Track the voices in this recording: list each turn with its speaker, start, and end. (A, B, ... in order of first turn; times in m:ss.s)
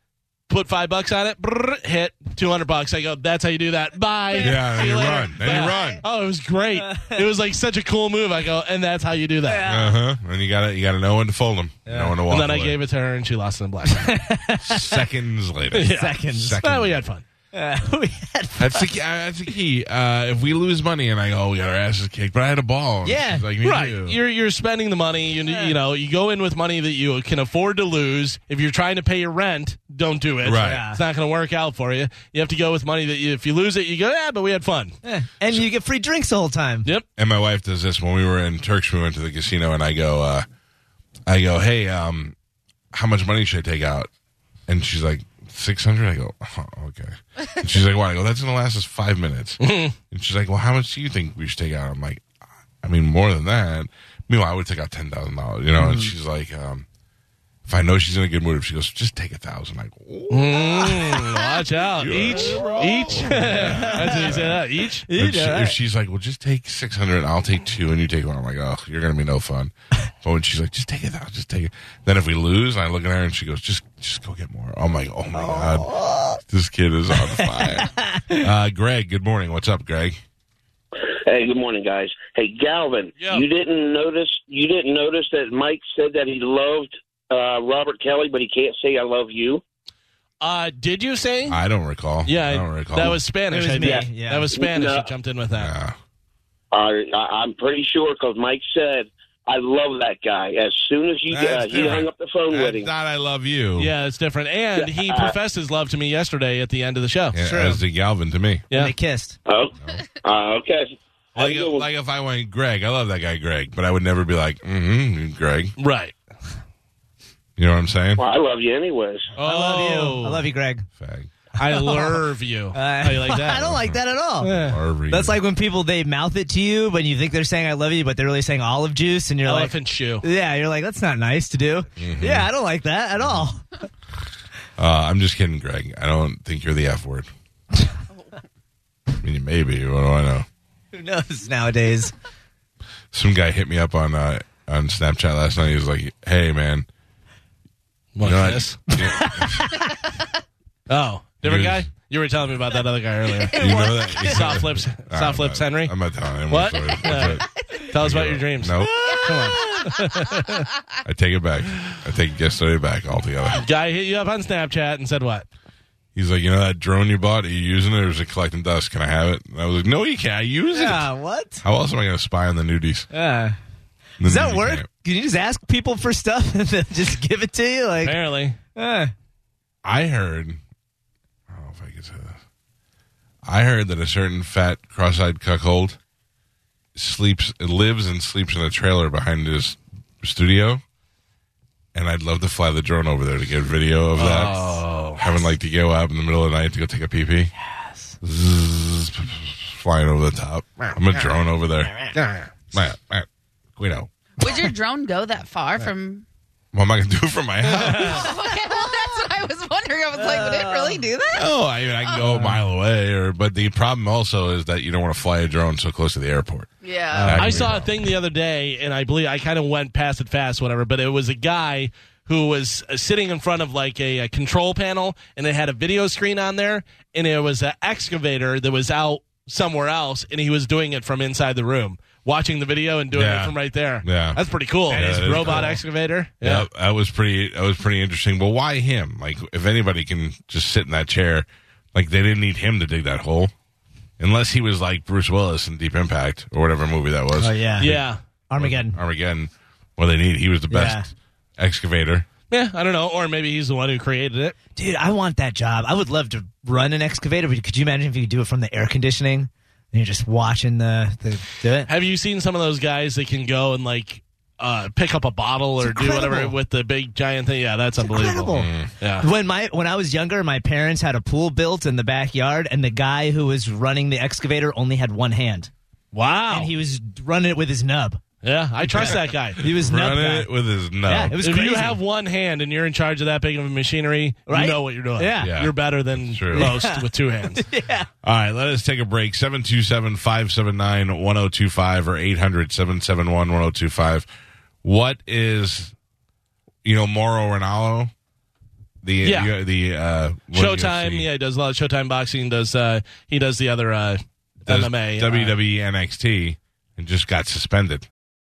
0:00.5-0:09.7 A
0:04.3-0:06.0 B
0:04.4-0:06.0 C
0:06.8-0:07.2 B
0:09.4-0:10.0 B
0:09.6-0:12.8 C
0:11.9-0:12.2 B
0:12.3-0:14.1 A
0:13.9-0:15.0 B
0:14.6-0:17.0 C
0:15.7-0:17.2 A
0:15.9-0:16.6 B
0:17.5-0:18.9 B
0:18.6-0:24.2 C
0:23.0-0:23.4 B
0:23.6-0:35.0 A
0:25.5-0:25.7 B
0:30.4-0:30.8 C
0:30.6-0:31.0 B
0:35.0-0:36.9 B
0:37.2-0:40.5 C
0:41.3-0:42.4 C
0:42.9-0:44.1 C
0:44.7-0:52.2 C
0:49.6-0:50.0 A
0:52.8-0:56.9 C
0:55.8-0:56.1 B
0:57.7-1:01.1 C
1:00.3-1:05.1 A
1:02.0-1:04.6 C
1:02.1-1:04.4 B
1:05.0-1:05.8 B
1:05.1-1:20.2 C
1:15.3-1:16.4 B
1:17.3-1:18.5 B
1:21.2-1:29.6 D
1:23.2-1:23.5 A
1:30.4-1:31.6 A
1:31.5-1:33.2 C
1:32.2-1:35.7 A
1:33.5-1:34.5 B
1:33.8-1:35.1 D
1:35.5-1:36.0 C
1:36.7-1:42.9 D
1:41.3-1:43.9 C
1:43.8-1:47.4 A
1:44.8-1:45.4 D
1:47.3-1:48.6 C
1:47.4-1:47.8 B
1:48.7-1:49.4 B
1:49.5-1:51.9 D
1:51.4-1:55.8 C
1:55.8-1:56.2 A
1:57.6-1:58.2 C
1:58.2-1:59.3 D
1:59.4-2:00.9 B
1:59.4-2:00.5 A
2:01.0-2:01.3 C
2:01.6-2:03.8 A
2:01.6-2:13.8 B
2:03.5-2:04.0 C
2:04.4-2:04.8 A
2:04.6-2:05.4 C
2:09.4-2:10.3 A
2:12.0-2:12.5 C
2:13.2-2:13.5 C
2:14.8-2:17.3 C
2:19.2-2:20.5 C
2:20.9-2:22.1 B
2:23.1-2:26.9 C
2:28.2-2:28.8 A
2:28.2-2:29.7 C
2:28.9-2:29.9 B
2:30.9-2:36.0 A
2:31.4-2:31.9 C
2:33.5-2:39.5 C
2:36.5-2:40.7 A
2:39.2-2:39.7 E
2:41.0-2:43.6 C
2:43.5-2:45.5 A
2:46.2-2:51.1 C
2:50.7-2:51.6 B
2:51.6-2:53.1 C
2:53.1-2:53.6 B
2:54.2-2:54.9 C
2:54.2-2:58.2 B
2:58.0-2:58.6 A
2:58.8-2:59.1 B
2:59.8-3:00.6 C
3:01.5-3:02.4 C
3:03.4-3:06.0 C
3:07.0-3:10.8 C
3:11.9-3:14.6 C
3:14.2-3:15.2 A
3:14.4-3:15.2 B
3:15.2-3:17.5 C
3:17.8-3:18.2 B
3:18.2-3:22.1 C
3:22.2-3:22.5 A
3:22.7-3:24.1 C
3:24.4-3:26.2 E
3:26.7-3:28.3 C
3:27.7-3:28.9 B
3:28.1-3:31.5 E
3:30.2-3:31.0 B
3:31.3-3:38.0 C
3:32.2-3:32.6 B
3:36.8-3:37.4 E
3:37.2-3:37.8 B
3:37.3-3:56.7 A
3:53.1-3:55.8 C
3:55.0-3:55.8 B
3:56.4-4:03.5 C
4:04.2-4:08.0 C
4:07.4-4:09.0 B
4:07.8-4:08.2 A
4:08.6-4:12.3 C
4:10.7-4:11.1 B
4:12.5-4:14.6 A
4:14.8-4:21.9 B
4:21.9-4:29.3 A
4:25.8-4:26.6 B
4:28.0-4:28.7 B
4:28.5-4:28.9 C
4:29.2-4:35.7 B
4:36.1-4:36.7 A
4:36.5-4:38.2 B
4:38.4-4:39.6 A
4:38.8-4:40.5 B
4:39.6-4:41.4 C
4:41.0-4:42.0 B
4:41.4-4:47.7 A
4:44.5-4:45.6 B
4:45.4-4:46.8 C
4:46.5-4:48.1 B
4:48.2-4:54.3 C
4:54.8-4:55.9 C
4:56.8-4:58.1 C
4:59.0-5:01.3 C
4:59.2-4:59.5 A
5:00.5-5:05.5 A
5:04.7-5:08.1 C